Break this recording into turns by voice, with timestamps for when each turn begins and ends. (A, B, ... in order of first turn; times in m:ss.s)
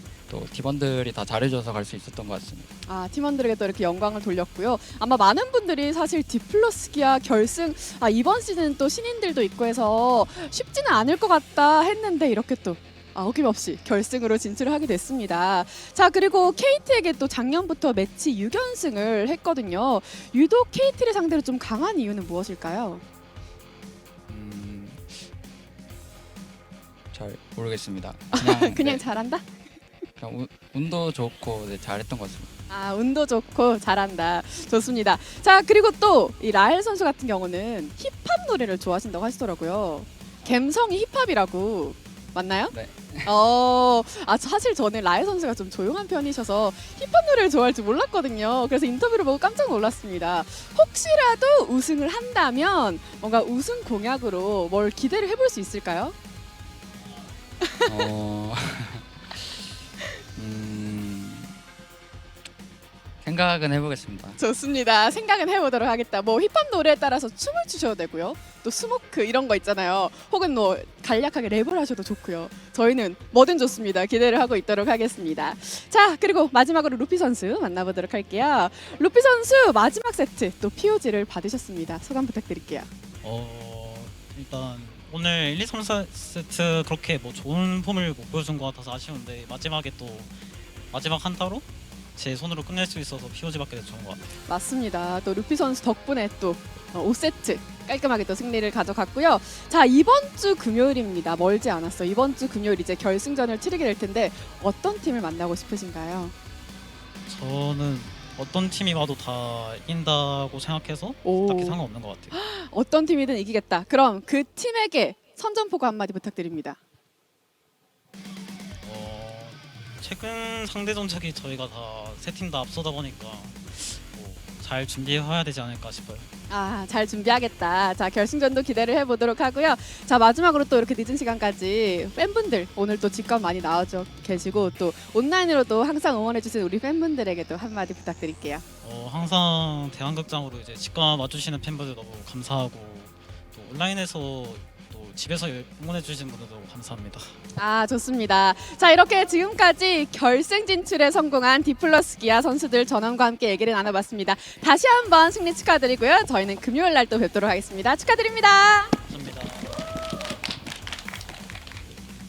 0:00.3-0:02.7 A
0:02.8-0:23.0 B
0:24.3-0:25.2 A
0:27.1-0:29.0 A
0:28.3-0:29.4 B
0:30.2-0:32.5 A
0:32.7-0:42.7 B
0:42.7-0:43.3 A
0:43.2-0:56.1 B
0:57.6-0:58.1 B
0:57.9-0:59.0 A
1:00.4-1:01.5 A
1:03.2-1:04.4 A
1:04.4-1:22.9 B
1:23.2-1:30.4 C
1:30.9-1:34.4 C
1:34.5-1:46.3 B
1:47.3-1:52.3 C
1:51.2-1:51.8 B
1:52.3-1:56.8 B
1:58.8-2:06.3 C
2:06.5-2:18.6 B
2:18.8-2:27.3 C
2:27.6-2:39.0 B
2:39.0-2:39.7 C